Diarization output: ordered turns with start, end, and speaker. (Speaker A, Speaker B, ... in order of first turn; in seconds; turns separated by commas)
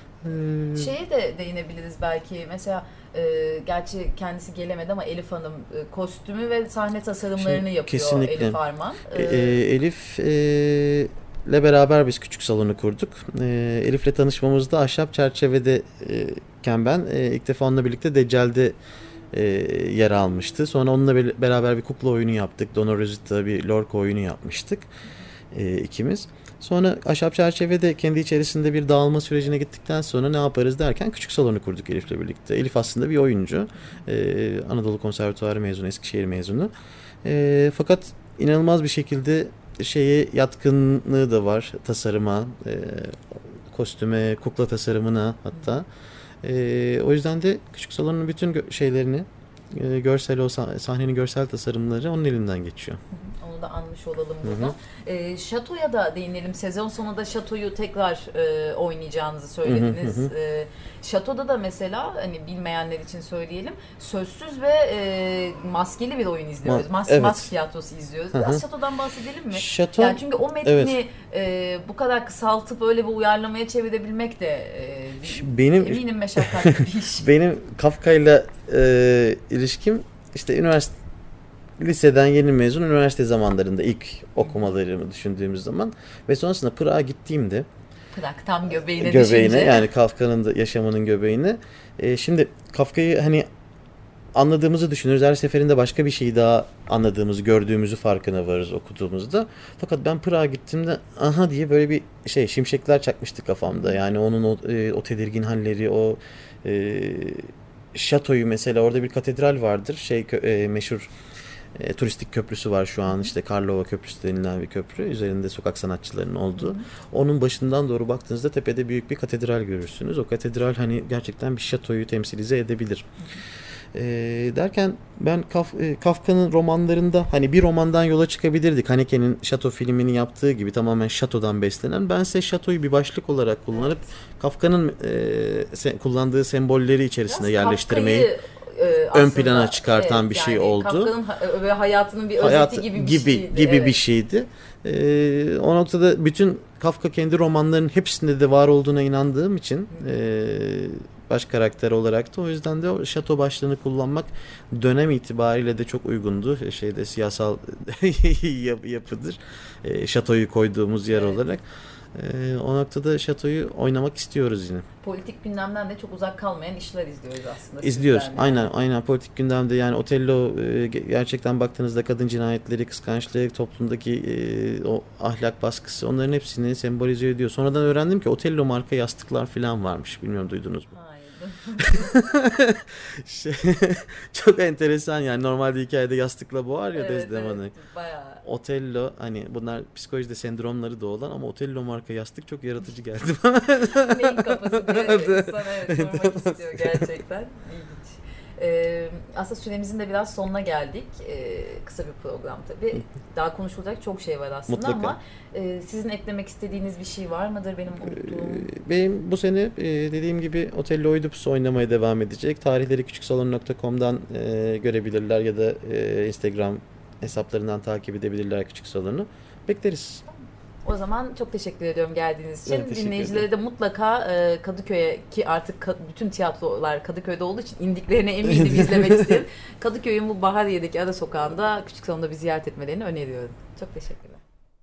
Speaker A: 0.2-0.9, Speaker B: 0.7-9.6, Speaker A: 7.4-8.6, Speaker A: 9.2-18.8, Speaker A: 19.3-24.9, Speaker A: 25.5-36.7, Speaker A: 37.2-45.9, Speaker A: 46.4-53.0, Speaker B: 53.1-77.3, Speaker A: 54.4-54.8, Speaker A: 59.6-60.3, Speaker A: 66.7-67.5, Speaker A: 68.3-68.6, Speaker A: 69.5-71.0, Speaker A: 75.3-80.9, Speaker A: 81.8-87.7, Speaker B: 88.1-89.9, Speaker A: 89.0-93.5, Speaker A: 94.3-111.1, Speaker A: 111.8-123.1, Speaker A: 123.9-138.3, Speaker B: 137.3-144.0, Speaker A: 139.1-141.1, Speaker A: 142.4-164.9, Speaker B: 161.1-161.4, Speaker B: 165.0-168.7, Speaker A: 167.8-180.9, Speaker B: 180.9-182.3, Speaker A: 181.8-187.7, Speaker B: 186.9-188.4, Speaker A: 188.4-197.1, Speaker B: 193.9-208.7, Speaker A: 204.7-205.2, Speaker A: 208.0-220.2, Speaker B: 220.8-234.4, Speaker A: 222.7-223.5, Speaker A: 228.4-229.4